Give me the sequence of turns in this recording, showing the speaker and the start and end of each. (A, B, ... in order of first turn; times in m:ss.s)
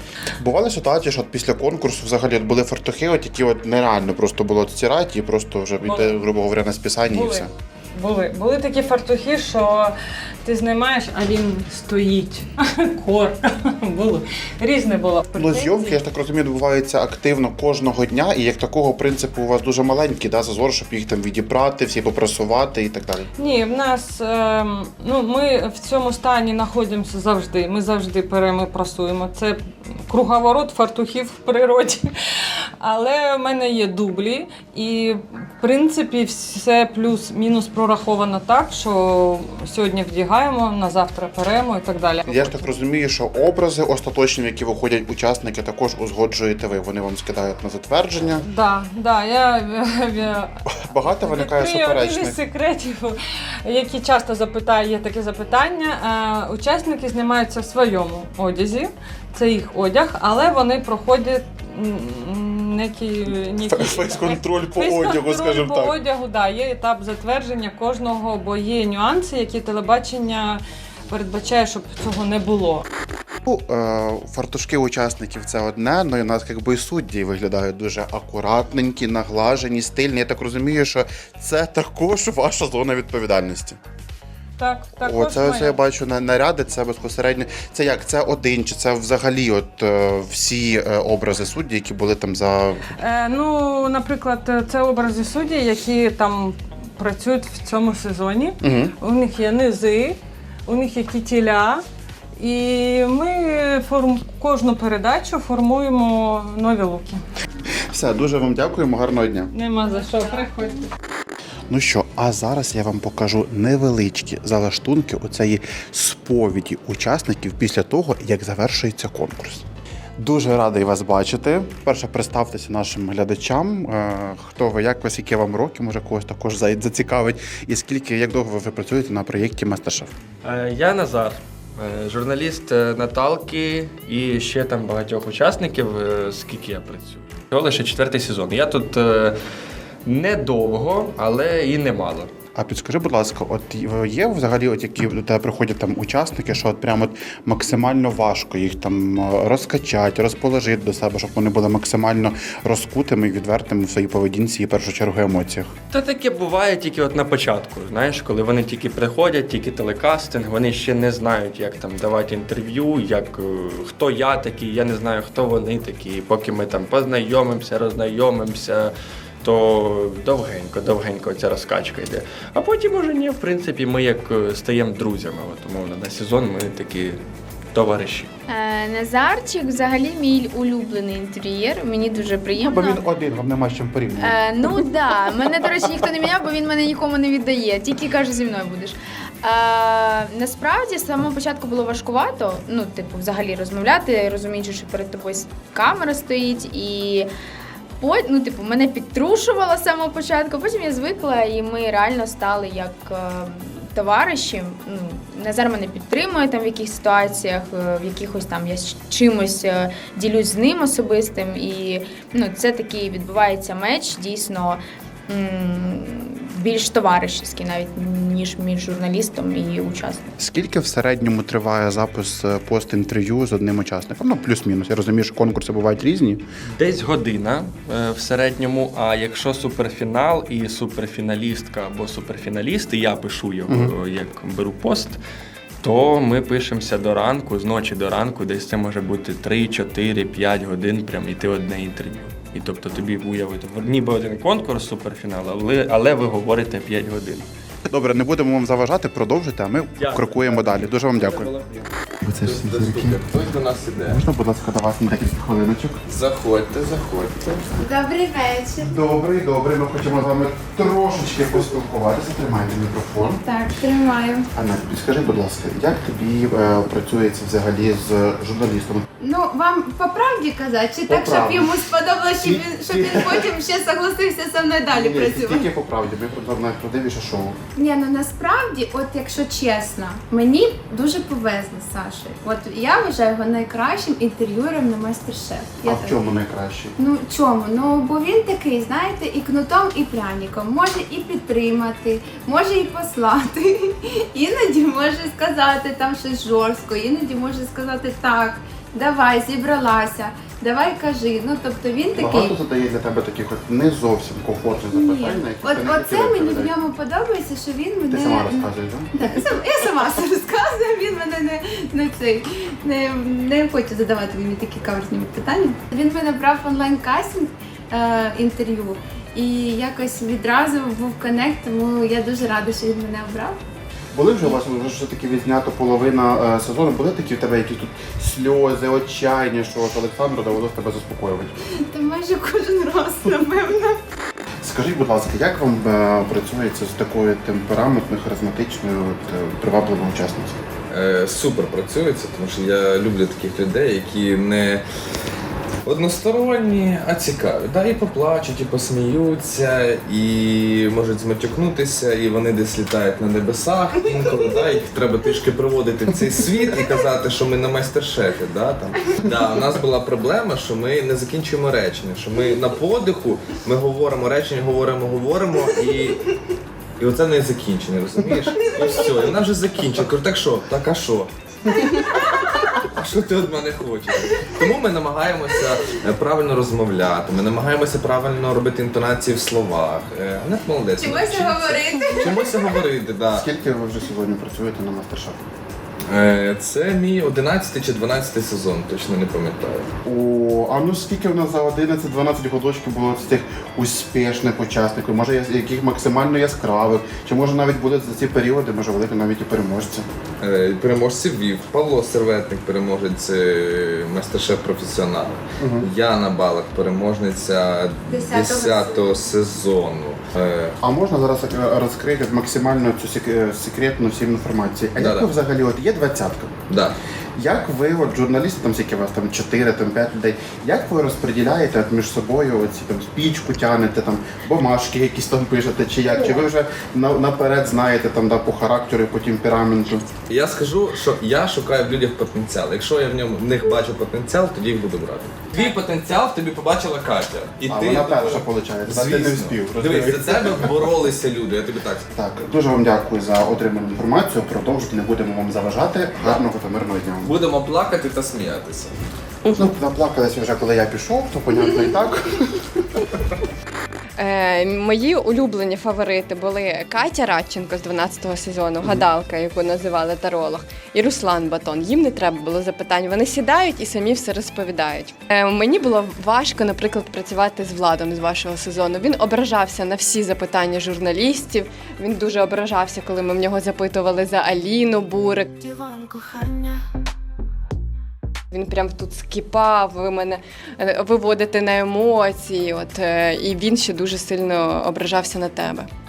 0:00.4-0:07.5 A
0:05.8-0:06.2 B
0:07.1-0:16.0 B
0:15.4-0:23.3 A
0:23.4-0:42.7 B
0:42.3-0:48.4 A
0:48.4-1:12.8 B
0:50.8-0:52.4 A
1:03.6-1:06.0 A
1:13.4-1:23.8 A
1:24.6-1:25.8 B
1:25.0-1:32.8 A
1:33.0-1:41.8 B
1:38.6-1:38.9 A
1:42.4-1:47.2 B
1:47.9-1:49.5 A
1:49.5-1:50.9 B
1:51.7-1:59.6 A
2:00.2-2:10.1 A
2:10.4-2:19.4 C
2:20.0-2:22.3 C
2:22.5-2:35.7 A
2:35.9-2:58.3 C
2:58.5-3:03.0 D
3:02.6-3:04.4 A
3:04.2-3:17.3 D
3:18.0-3:40.3 D
3:40.4-3:46.4 A
3:46.7-3:55.2 C
3:53.7-3:53.9 A
3:55.8-4:07.5 C
4:07.9-4:11.5 A
4:10.0-4:11.8 C
4:12.2-4:13.2 A
4:12.4-4:14.2 E
4:14.0-4:16.0 A
4:16.1-4:17.7 E
4:17.8-4:18.9 F
4:18.8-4:23.4 A
4:23.4-4:24.5 F
4:24.5-4:29.0 A
4:29.2-4:35.7 F
4:31.1-4:31.7 A
4:32.4-4:33.5 A
4:34.9-4:37.6 A
4:37.8-4:46.2 F
4:45.8-4:46.9 A
4:47.0-5:02.5 F
5:02.2-5:06.7 A
5:04.9-5:23.6 F
5:08.1-5:09.4 A
5:24.1-5:31.5 A
5:31.9-5:34.0 F
5:34.6-5:40.6 A
5:40.9-5:44.8 E
5:45.8-6:06.2 E
5:54.1-5:54.8 F
6:07.0-6:11.3 E
6:08.6-6:09.1 F
6:12.9-6:23.5 E
6:21.0-6:22.8 F
6:23.3-6:25.5 A
6:26.1-6:29.9 E
6:30.0-6:40.1 A
6:40.4-6:50.8 E
6:45.6-6:45.9 A
6:48.1-6:49.1 F
6:50.8-6:56.6 A
6:55.0-6:55.3 E
6:56.7-6:57.0 E
6:57.4-7:10.0 A
7:10.3-7:22.1 E
7:17.7-7:20.7 A
7:22.1-7:27.3 A
7:26.2-7:26.5 E
7:27.2-7:29.0 E
7:29.5-7:32.5 A
7:34.2-7:55.5 G
7:58.5-8:05.9 G